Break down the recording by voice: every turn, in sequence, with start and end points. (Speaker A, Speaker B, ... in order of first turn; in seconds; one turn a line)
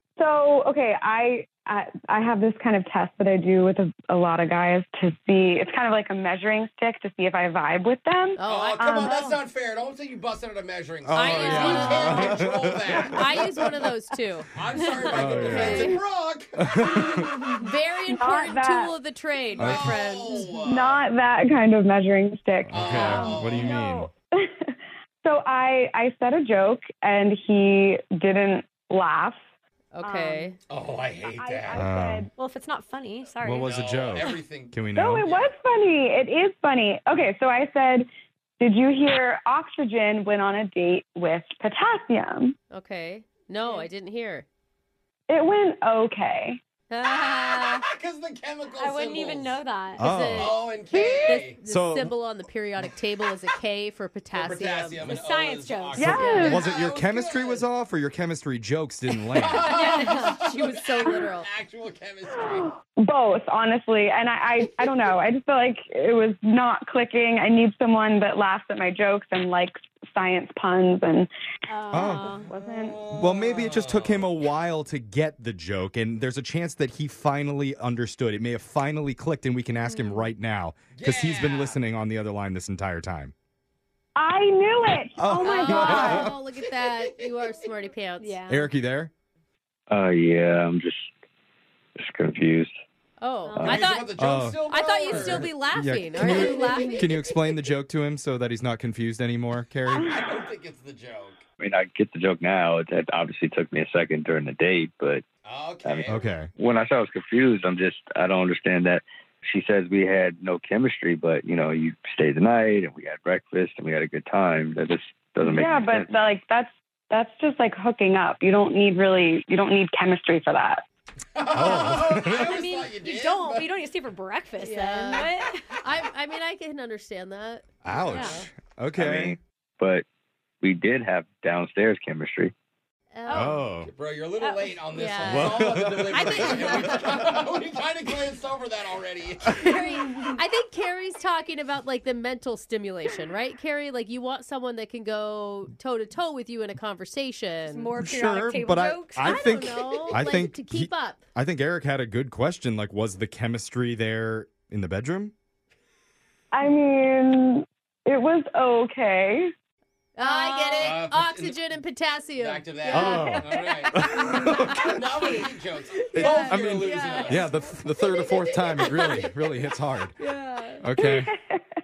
Speaker A: 0.2-9.3
Speaker B: 8.4-9.3
Speaker C: 8.4-13.7
Speaker D: 11.0-13.8
Speaker B: 11.2-12.5
Speaker B: 13.0-14.5
Speaker C: 14.6-16.9
Speaker B: 15.1-16.0
Speaker D: 15.1-16.0
Speaker A: 15.1-16.0
Speaker D: 16.6-17.5
Speaker B: 17.6-20.5
Speaker A: 18.1-18.9
Speaker C: 19.6-21.0
Speaker D: 19.6-20.1
Speaker A: 20.4-29.4
Speaker D: 22.7-24.1
Speaker C: 22.7-23.8
Speaker B: 29.9-30.6
Speaker A: 30.0-30.6
Speaker C: 30.7-31.9
Speaker A: 31.2-32.3
Speaker D: 31.8-32.3
Speaker E: 32.4-33.7
Speaker D: 33.4-35.3
Speaker C: 33.6-35.5
Speaker A: 34.9-38.1
Speaker A: 38.6-42.5
Speaker B: 42.7-44.5
Speaker E: 43.6-43.9
Speaker A: 45.3-46.6
Speaker B: 46.9-47.8
Speaker E: 47.0-47.7
Speaker C: 47.3-49.6
Speaker E: 48.7-50.1
Speaker D: 50.0-50.6
Speaker B: 50.0-55.0
Speaker C: 50.3-51.6
Speaker D: 51.6-52.1
Speaker C: 54.3-57.6
Speaker E: 55.0-56.6
Speaker A: 56.0-56.6
Speaker B: 56.1-56.6
Speaker D: 56.4-59.7
Speaker C: 59.4-62.7
Speaker E: 59.5-60.5
Speaker B: 60.2-61.5
Speaker A: 62.7-71.3
Speaker E: 71.7-72.5
Speaker D: 71.9-72.4
Speaker A: 71.9-73.1
Speaker C: 72.2-74.3
Speaker D: 73.1-83.3
Speaker E: 79.8-80.3
Speaker C: 80.9-81.8
Speaker A: 84.2-86.3
Speaker D: 85.2-86.4
Speaker B: 85.4-88.4
Speaker C: 86.8-87.0
Speaker E: 88.2-88.7
Speaker D: 88.5-89.1
Speaker F: 89.9-91.1
Speaker F: 92.0-92.7
Speaker B: 93.2-94.2
Speaker E: 93.4-93.8
Speaker F: 93.6-93.9
Speaker C: 93.6-95.5
Speaker D: 94.2-100.2
Speaker B: 94.7-97.1
Speaker C: 100.0-101.4
Speaker F: 101.6-105.2
Speaker C: 105.4-106.2
Speaker F: 105.8-116.1
Speaker D: 106.1-106.5
Speaker A: 115.4-120.8
Speaker C: 121.3-123.7
Speaker D: 121.5-122.5
Speaker E: 122.1-125.8
Speaker B: 124.6-125.3
Speaker B: 125.8-128.5
Speaker D: 127.8-129.4
Speaker E: 128.1-128.4
Speaker F: 128.9-130.0
Speaker F: 130.6-132.5
Speaker B: 133.1-133.6
Speaker D: 133.3-133.9
Speaker C: 133.8-139.8
Speaker E: 134.4-134.8
Speaker B: 134.9-137.1
Speaker D: 135.3-137.2
Speaker B: 139.6-147.9
Speaker E: 139.7-140.4
Speaker E: 147.7-150.2
Speaker D: 148.0-155.3
Speaker B: 149.2-151.2
Speaker A: 156.5-159.5
Speaker B: 160.2-163.4
Speaker E: 160.2-160.9
Speaker C: 160.8-161.6
Speaker C: 162.4-164.0
Speaker D: 162.9-165.0
Speaker E: 162.9-163.7
Speaker C: 164.6-167.5
Speaker E: 164.9-165.5
Speaker D: 166.1-170.2
Speaker B: 166.2-167.4
Speaker E: 170.2-170.6
Speaker D: 170.8-171.3
Speaker A: 171.0-171.6